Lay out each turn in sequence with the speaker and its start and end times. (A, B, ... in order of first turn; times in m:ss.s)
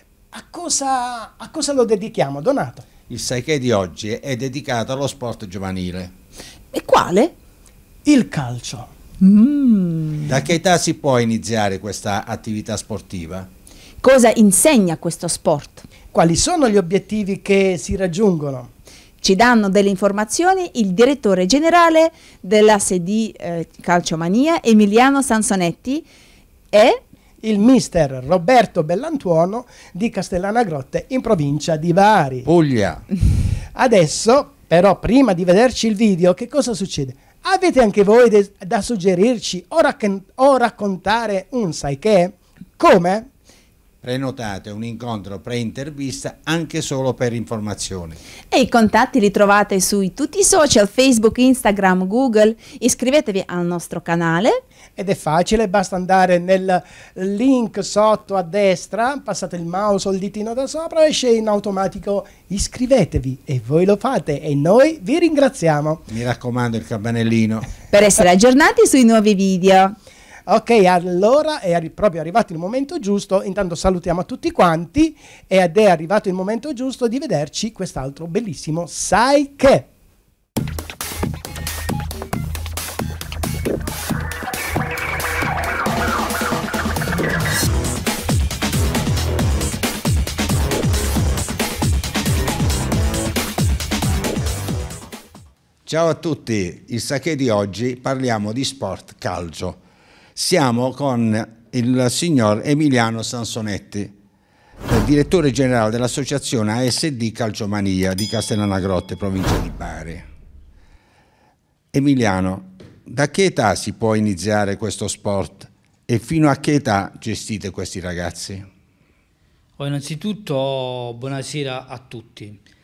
0:00.3-0:02.8 A
0:03.1-0:06.1 B
0:06.7-0:07.3 C
0:08.0-0:08.9 A
0:09.2-0:10.3 C
0:10.3-0:13.5 B
0:14.0-0:15.8 C
0:16.1-0:18.7 A
0:19.2-0:26.0 C
0:26.7-0:27.0 C
0:27.4-0:32.5 A
0:32.4-0:33.0 B
0:33.7-0:43.3 A
0:44.0-0:48.2 B
0:48.5-0:54.6 C
0:55.0-1:06.0 A
1:06.1-1:07.8 B
1:07.9-1:10.0 C
1:10.5-1:19.9 A
1:35.9-1:39.8 B
1:40.4-1:44.1 B
1:44.9-1:50.2 B
1:51.9-1:58.6 B
1:59.8-2:02.6 D